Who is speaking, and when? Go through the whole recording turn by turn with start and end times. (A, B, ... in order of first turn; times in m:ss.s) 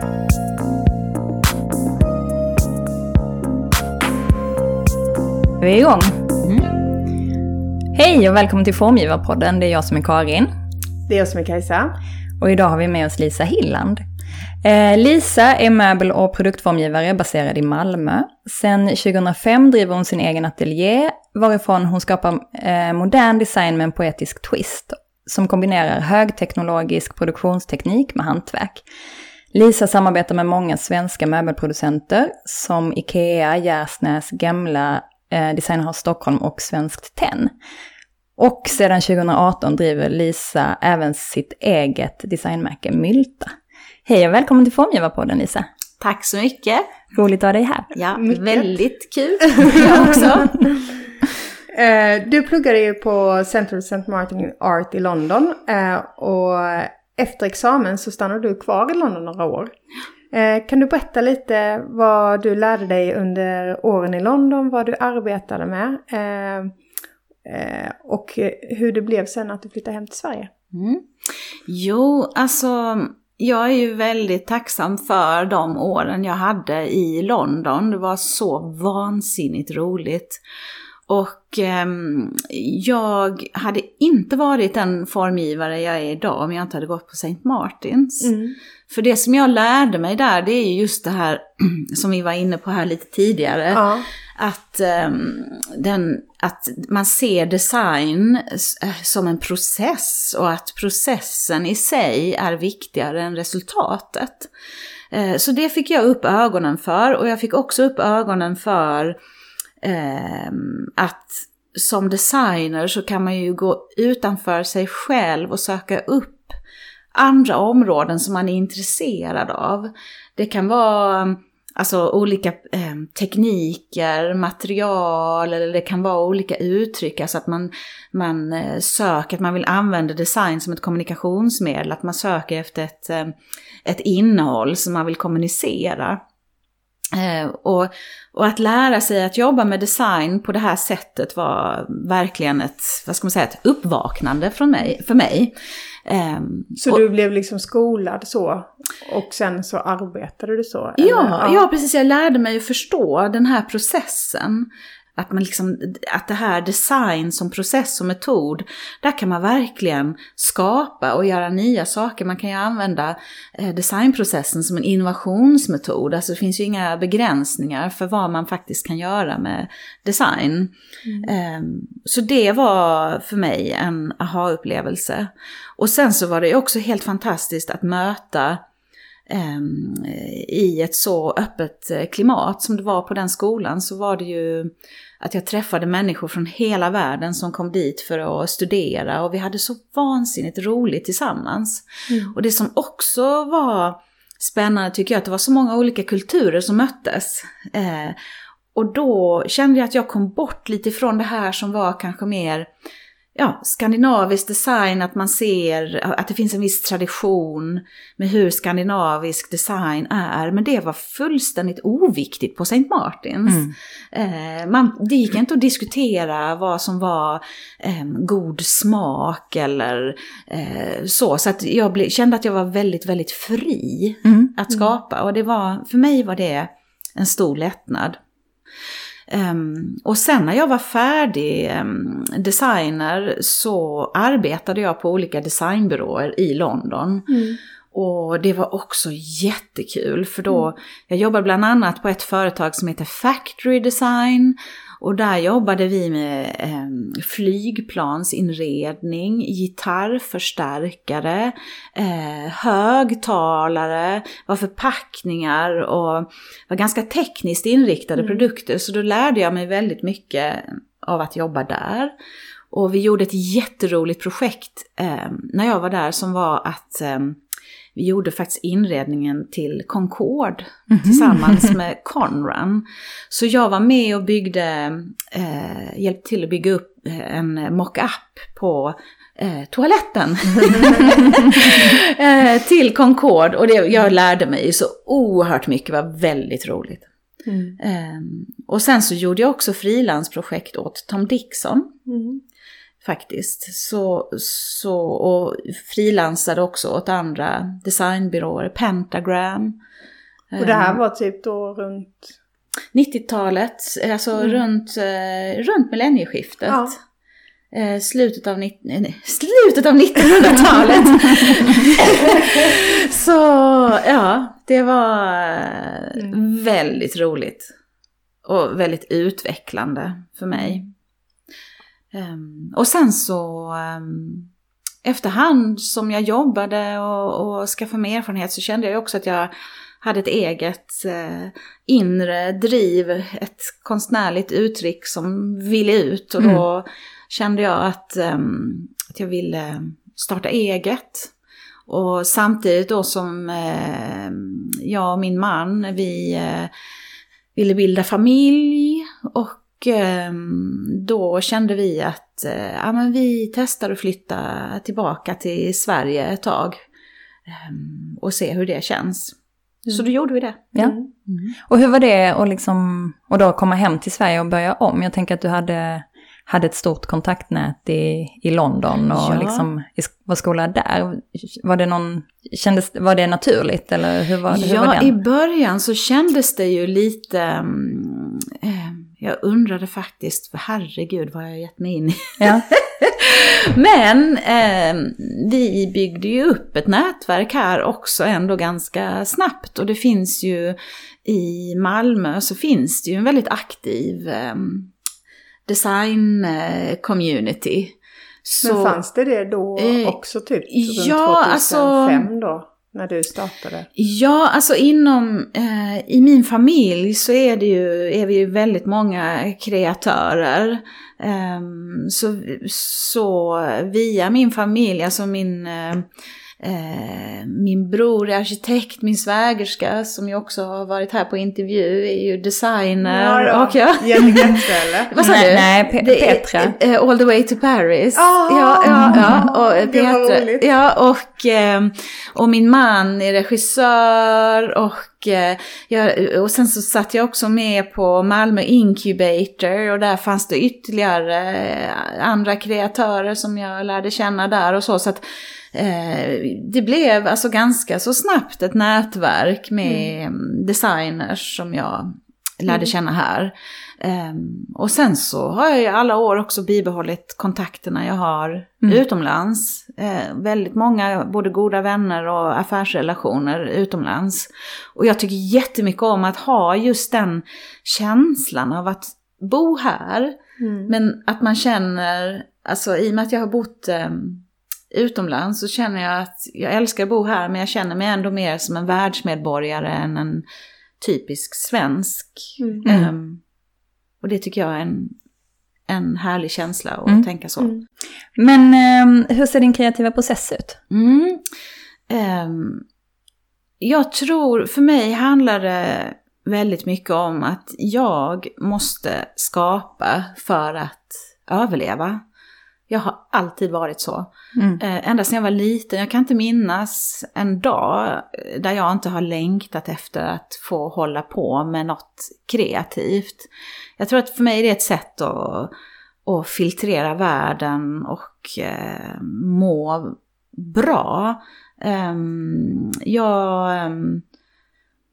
0:05.6-0:06.3 A
0:07.9-0:10.5 A
0:11.1-0:11.9 B
0:12.4-0:14.0 A
0:14.6-0:28.8 A
0:29.5-0:37.5 A
0:38.4-0:43.6 A
0:44.0-0:45.7 A
0:46.0-0:47.0 C
0:47.1-0:47.9 A
0:47.9-0:50.6 C
0:48.2-0:48.8 B
0:49.8-0:50.1 A
0:51.7-0:59.7 B
1:00.3-1:06.8 B
1:07.4-1:10.5 B
1:10.7-1:11.1 C
1:11.7-1:20.4 C
1:21.1-1:28.4 C
1:28.2-1:28.6 B
1:28.9-1:44.5 C
1:33.7-1:34.1 B
1:45.1-1:49.2 C
1:49.8-1:56.6 C
1:57.1-2:16.2 C
2:17.1-2:27.0 C
2:26.8-2:31.6 B
2:31.0-2:58.6 C
2:51.0-2:51.3 B
2:59.3-3:18.2 C
3:12.1-3:12.3 B
3:18.7-3:22.7 C
3:23.4-3:48.2 C
3:33.5-3:33.7 A
3:44.2-3:44.5 A
3:49.3-3:57.4 C
3:57.3-3:57.6 B
3:57.9-4:22.1 C
4:18.2-4:18.4 B
4:22.7-4:27.4 C
4:27.9-4:47.1 C
4:30.9-4:31.8 A
4:47.4-4:47.8 B
4:47.8-4:51.9 C
4:52.1-4:52.4 B
4:53.0-4:59.8 C
5:00.5-5:01.0 C
5:00.6-5:02.4 B
5:02.9-5:07.0 C
5:06.7-5:06.9 B
5:07.7-5:17.7 C
5:18.4-5:20.9 C
5:22.1-5:24.5 C
5:25.0-5:29.5 C
5:30.0-5:41.3 C
5:41.9-5:46.7 C
5:47.5-5:56.8 C
5:57.5-5:59.4 C
5:59.9-6:00.7 C
6:00.8-6:01.0 B
6:01.5-6:15.1 A
6:09.1-6:09.7 C
6:14.5-6:34.9 C
6:22.4-6:22.6 A
6:35.7-6:39.0 C
6:38.6-6:43.9 B
6:39.8-6:40.2 C
6:40.7-6:42.3 C
6:44.0-6:56.1 C
6:56.6-7:50.3 C
7:03.0-7:05.1 B
7:05.2-7:06.8 A
7:08.1-7:10.6 B
7:08.9-7:09.3 A
7:29.8-7:30.1 B
7:50.6-7:50.9 B
7:50.9-8:00.4 C
8:01.0-8:03.4 C
8:02.6-8:02.8 B
8:04.2-8:05.2 C
8:05.9-8:07.7 C
8:08.4-8:10.8 A
8:10.9-8:11.4 C
8:12.1-8:12.8 C
8:13.8-8:22.2 C
8:22.9-8:35.7 C
8:24.6-8:24.8 A
8:36.2-8:44.2 C